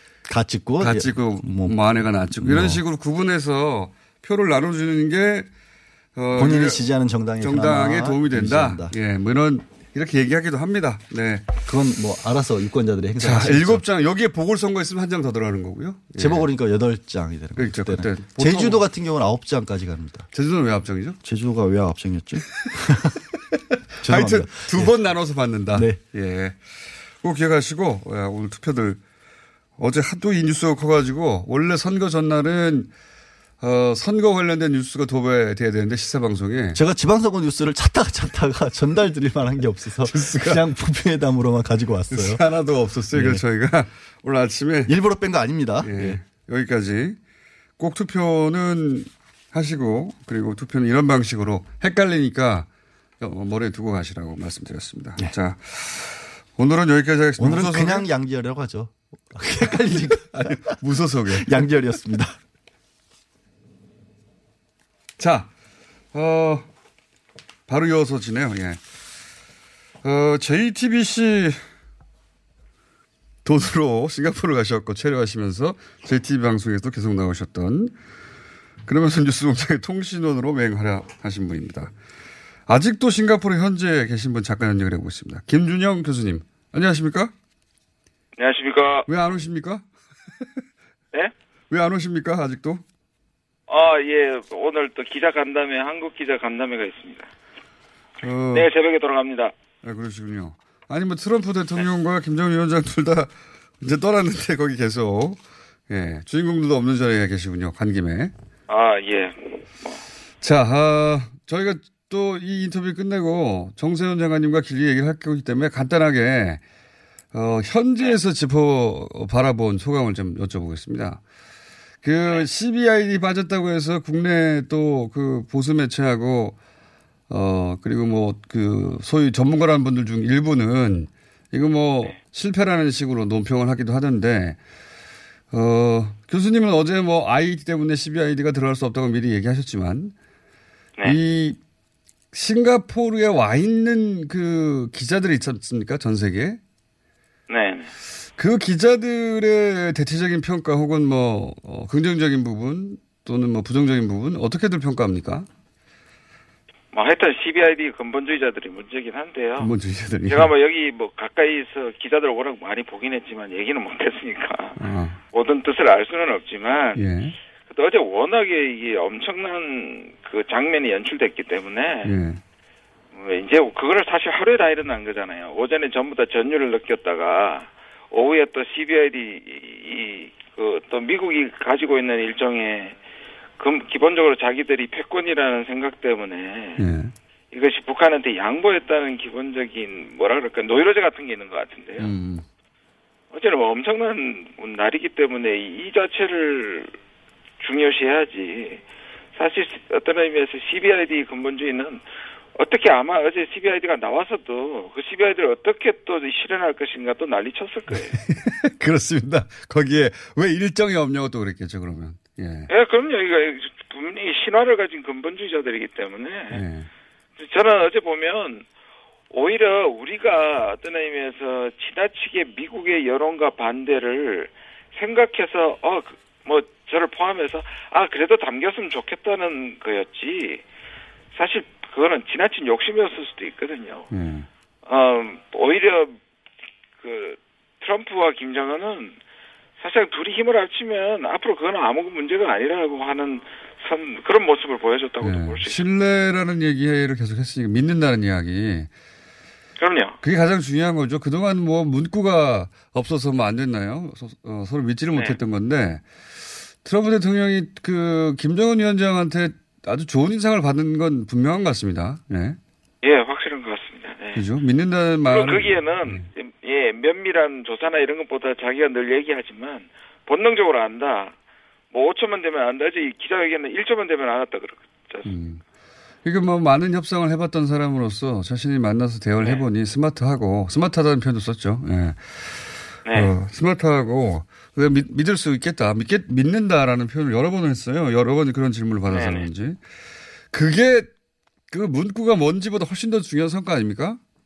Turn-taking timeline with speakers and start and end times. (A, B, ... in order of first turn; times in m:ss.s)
0:00.2-0:02.8 A
0:00.8-0:05.5 B
0:06.2-0:06.8 B
0:06.3-0:08.9 A
0:07.4-0:11.4 B
0:11.6-0:13.8 A
0:13.2-0:16.5 B
0:16.2-0:20.3 A
0:17.6-0:18.8 B
0:20.3-0:21.2 B
0:21.2-0:23.2 A
0:24.0-0:25.0 A
0:24.0-0:26.6 B
0:25.7-0:26.0 A
0:27.2-0:29.0 B
0:29.8-0:32.9 B
0:33.6-0:36.8 B
0:36.7-0:42.4 A
0:40.1-0:40.6 B
0:42.1-0:44.9 B
0:43.1-0:43.4 A
0:44.9-0:46.2 A
0:45.8-0:47.2 B
0:47.8-0:52.7 B
0:53.2-0:58.1 B
0:57.4-1:00.6 A
1:00.3-1:01.6 B
1:01.3-1:02.4 A
1:05.2-1:05.5 B
1:06.1-1:06.7 B
1:07.7-1:08.8 B
1:10.0-1:11.6 B
1:13.4-1:18.0 B
1:18.9-1:21.9 B
1:22.7-1:27.3 B
1:28.4-1:29.1 C
1:29.1-1:29.8 B
1:31.7-1:32.8 B
1:33.7-1:37.3 C
1:38.2-1:38.7 B
1:38.5-1:39.5 C
1:39.8-1:48.3 B
1:48.7-1:50.0 C
1:50.4-1:56.6 B
1:57.3-2:01.2 B
2:02.0-2:06.6 B
2:07.3-2:14.6 B
2:15.5-2:20.1 B
2:21.0-2:21.6 B
2:22.3-2:26.6 B
2:27.5-2:27.9 C
2:28.4-2:35.5 B
2:36.9-2:39.7 C
2:39.6-2:40.5 B
2:40.3-2:44.8 C
2:44.8-2:45.2 B
2:45.3-2:47.0 C
2:47.0-2:47.3 B
2:47.7-2:52.1 C
2:52.0-2:52.4 B
2:53.1-3:02.9 C
3:03.6-3:06.8 C
3:06.8-3:07.1 B
3:07.5-3:12.1 C
3:12.0-3:12.4 B
3:13.3-3:16.9 C
3:17.6-3:18.8 C
3:19.4-3:22.0 C
3:22.6-3:28.2 C
3:28.2-3:32.7 B
3:32.7-3:36.6 C
3:36.5-3:36.9 B
3:37.4-3:38.6 C
3:39.3-3:50.6 C
3:51.3-3:54.1 C
3:54.1-3:54.5 B
3:54.8-3:56.2 C
3:57.0-3:59.2 C
3:59.8-4:05.8 C
4:05.2-4:08.9 B
4:09.8-4:10.2 C
4:10.2-4:16.0 B
4:16.8-4:22.6 B
4:23.0-4:24.4 C
4:24.3-4:26.3 B
4:25.2-4:31.3 C
4:31.9-4:35.3 C
4:35.2-4:35.6 B
4:36.2-4:42.2 B
4:43.0-4:43.3 C
4:43.1-4:49.8 B
4:49.1-4:49.5 C
4:50.5-4:51.1 B
4:51.7-4:54.2 B